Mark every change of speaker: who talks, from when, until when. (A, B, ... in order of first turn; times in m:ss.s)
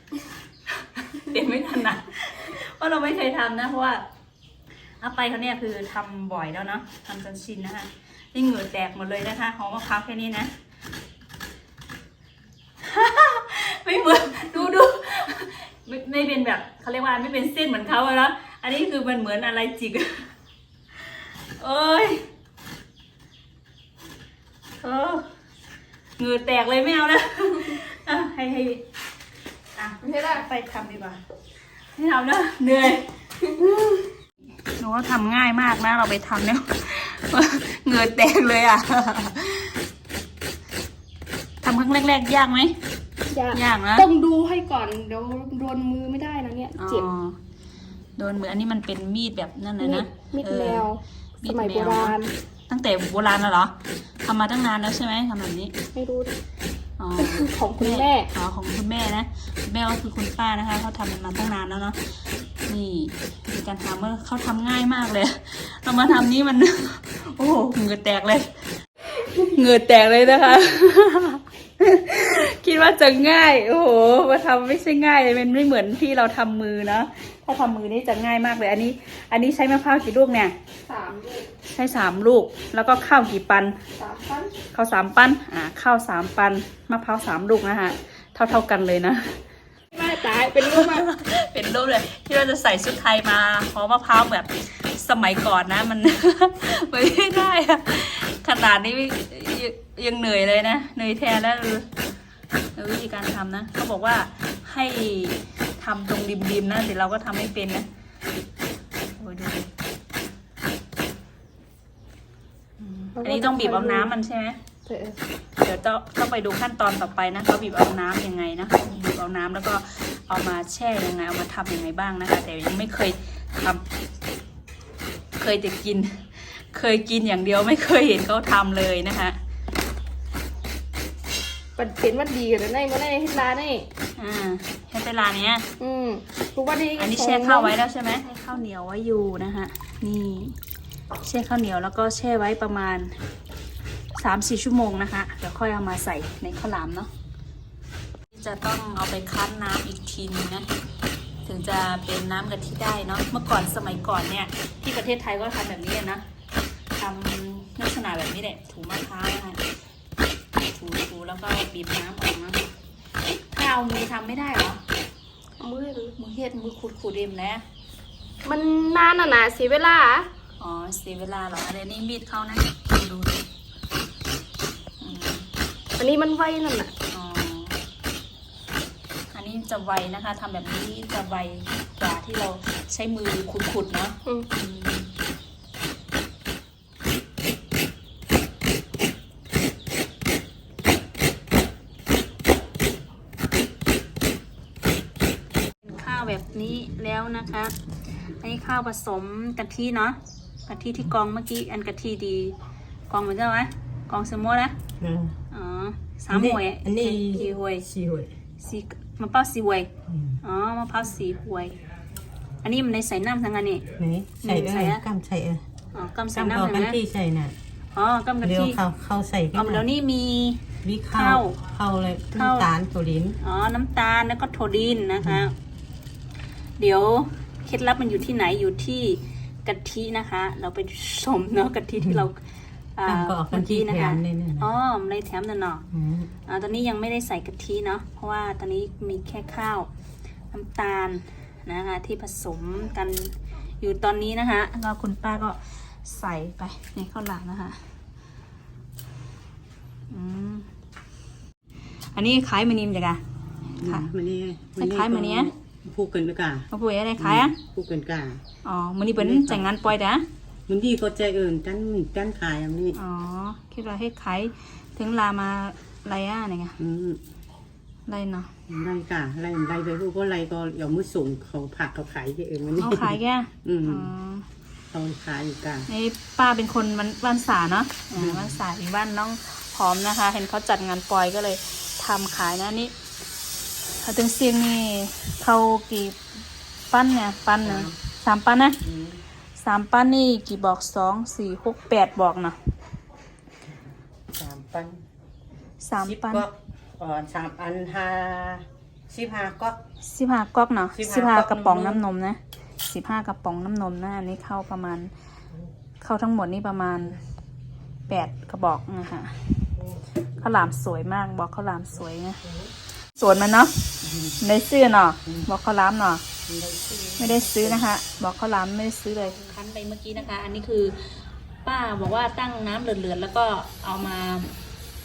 0:00.7-0:04.0 A
0:05.0-0:10.5 A
0:12.8-0:20.3 A
0:21.0-0:22.2 A
0:24.8-0:25.3 A
0:26.2-0:28.8 A
0:29.8-0:31.2 A
0:30.0-0:30.4 B
0:31.9-0:34.0 A
0:34.7-0:39.8 A
0:41.6-0:42.8 A
0:43.3-0:47.1 B
0:43.5-0:44.1 A
0:46.8-0:47.4 A
0:48.2-0:50.9 A
0:49.8-0:52.3 B
0:51.4-0:52.2 A
0:52.7-0:55.7 A
0:55.9-0:56.3 B
0:57.0-1:08.5 A
0:57.2-0:58.3 B
1:09.3-1:20.5 A
1:20.8-1:21.5 B
1:21.7-1:23.8 A
1:24.0-1:24.5 B
1:24.7-1:29.4 A
1:29.9-1:31.1 B
1:30.5-1:41.9 A
1:42.8-1:47.9 A
1:49.2-1:49.7 A
1:52.8-1:54.6 A
1:53.2-1:54.1 B
1:54.8-1:55.2 B
1:55.6-2:03.8 A
2:05.4-2:09.4 A
2:11.8-2:13.8 B
2:14.2-2:15.6 A
2:15.8-2:17.7 B
2:17.0-2:20.6 A
2:21.2-2:23.2 A
2:24.1-2:27.1 A
2:28.3-2:30.7 A
2:31.4-2:36.2 A
2:37.0-2:39.6 A
2:40.6-2:42.6 A
2:43.5-2:44.8 A
2:45.6-2:46.1 B
2:46.2-2:47.6 A
2:48.4-2:50.3 B
2:50.6-2:53.5 A
2:55.0-2:55.5 A
2:56.0-2:56.9 B
2:57.1-2:57.8 A
2:59.3-3:05.1 A
3:15.8-3:17.7 A
3:18.4-3:22.6 A
3:23.1-3:24.8 A
3:25.0-3:25.4 C
3:25.5-3:27.9 A
3:26.3-3:28.3 C
3:28.6-3:29.9 A
3:30.1-3:30.4 C
3:30.4-3:31.8 A
3:32.6-3:33.9 A
3:34.0-3:35.6 C
3:34.4-3:35.0 A
3:35.9-3:37.0 A
3:36.3-3:37.5 C
3:37.9-3:38.8 A
3:38.4-3:39.8 C
3:39.5-3:41.6 A
3:40.8-3:43.4 C
3:42.3-3:42.7 A
3:43.4-3:45.5 A
3:46.8-3:52.4 A
3:53.0-3:55.8 A
3:53.0-3:54.7 C
3:55.9-3:56.3 C
3:56.4-3:59.9 A
4:00.5-4:07.8 A
4:10.1-4:10.7 A
4:12.1-4:13.2 A
4:13.8-4:18.4 C
4:13.8-4:14.1 A
4:14.8-4:15.5 A
4:16.7-4:17.6 A
4:18.6-4:20.2 A
4:19.2-4:19.7 C
4:20.7-4:23.0 C
4:22.9-4:26.8 A
4:26.8-4:27.2 C
4:28.1-4:28.5 A
4:28.7-4:34.1 C
4:32.8-4:34.4 A
4:34.9-4:35.9 C
4:35.9-4:42.9 A
4:38.2-4:38.5 C
4:44.0-4:46.2 A
4:46.9-4:48.8 A
4:47.6-4:47.9 C
4:48.8-4:49.2 C
4:49.6-4:52.6 A
4:54.3-4:55.0 C
4:55.8-4:56.5 A
4:56.0-4:59.8 C
5:00.0-5:05.1 A
5:00.9-5:02.0 C
5:06.0-5:07.2 A
5:08.1-5:09.5 A
5:10.4-5:12.4 A
5:13.2-5:13.7 A
5:14.1-5:14.3 C
5:14.4-5:16.2 A
5:16.5-5:17.9 C
5:17.2-5:21.0 A
5:21.6-5:24.5 A